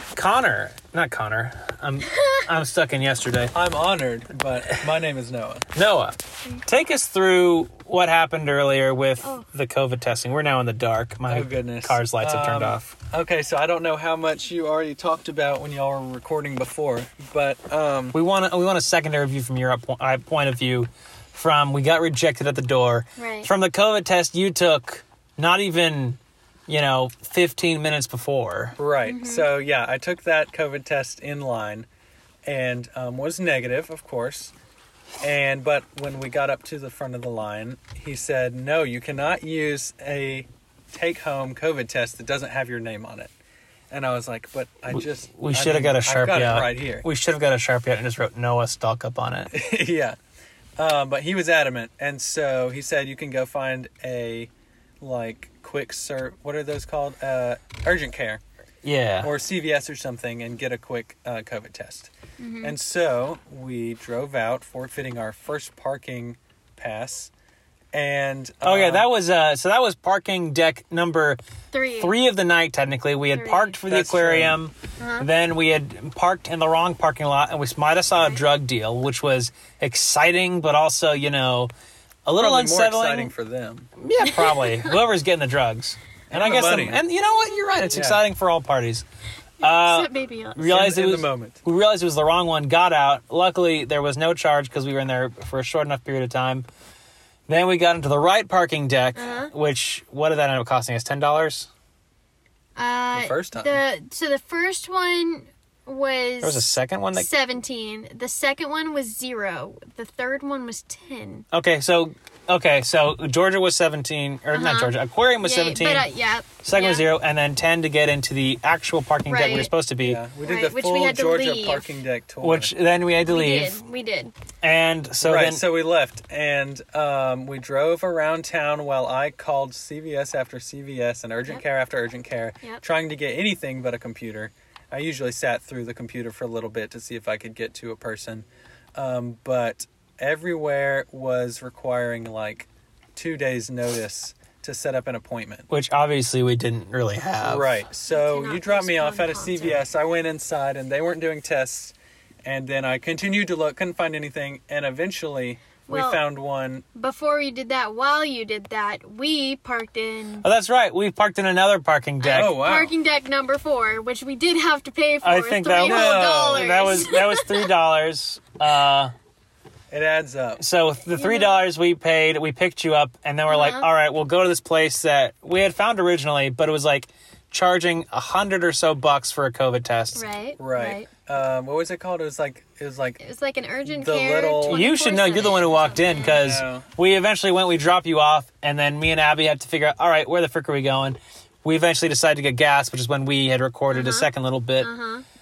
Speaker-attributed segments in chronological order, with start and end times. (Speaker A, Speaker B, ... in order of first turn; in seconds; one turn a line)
Speaker A: 0.1-3.5
Speaker B: 2.1-2.4
Speaker C: 3.5-5.7
Speaker A: 5.8-6.1
Speaker A: 6.7-12.8
Speaker B: 9.2-9.5
Speaker C: 11.2-18.2
Speaker A: 18.1-26.2
Speaker B: 23.2-23.5
Speaker A: 26.7-28.8
Speaker C: 28.8-31.9
Speaker B: 29.0-29.5
Speaker C: 32.4-34.5
Speaker C: 35.2-43.3
Speaker C: 43.9-47.1
Speaker A: 45.4-49.5
Speaker C: 49.5-50.2
Speaker C: 50.8-58.4
Speaker A: 58.8-59.3
Speaker C: 59.2-62.1
Speaker B: 62.4-62.8
Speaker C: 62.6-67.3
Speaker C: 67.9-69.1
Speaker A: 68.6-71.4
Speaker B: 71.7-72.3
Speaker A: 72.0-74.7
Speaker B: 73.3-73.8
Speaker C: 73.8-74.6
Speaker B: 75.0-75.3
Speaker A: 75.2-81.7
Speaker B: 78.1-78.5
Speaker A: 82.2-83.3
Speaker C: 82.3-83.9
Speaker A: 84.0-89.0
Speaker B: 84.2-84.9
Speaker C: 86.3-87.0
Speaker C: 87.9-88.2
Speaker B: 89.6-90.8
Speaker A: 89.6-96.6
Speaker C: 90.6-91.6
Speaker A: 97.5-101.7
Speaker B: 99.1-99.5
Speaker B: 102.8-111.5
Speaker C: 103.1-103.8
Speaker A: 106.4-107.2
Speaker A: 111.5-116.0
Speaker B: 114.5-117.1
Speaker A: 116.6-120.2
Speaker B: 119.3-119.7
Speaker C: 120.0-122.7
Speaker B: 120.4-121.9
Speaker A: 122.4-123.8
Speaker B: 123.2-124.3
Speaker A: 124.6-125.5
Speaker C: 125.2-145.7
Speaker A: 145.7-147.7
Speaker C: 147.4-156.8
Speaker B: 148.0-149.8
Speaker B: 155.9-156.2
Speaker B: 156.9-160.5
Speaker A: 160.4-162.6
Speaker B: 162.2-167.7
Speaker C: 162.3-162.9
Speaker A: 165.2-169.1
Speaker C: 165.8-166.8
Speaker C: 169.9-170.6
Speaker A: 170.6-180.2
Speaker B: 171.1-171.7
Speaker B: 173.5-173.9
Speaker B: 180.1-181.1
Speaker C: 180.6-183.2
Speaker B: 183.2-186.5
Speaker C: 183.8-184.8
Speaker A: 184.7-194.9
Speaker C: 186.3-186.9
Speaker B: 193.9-195.2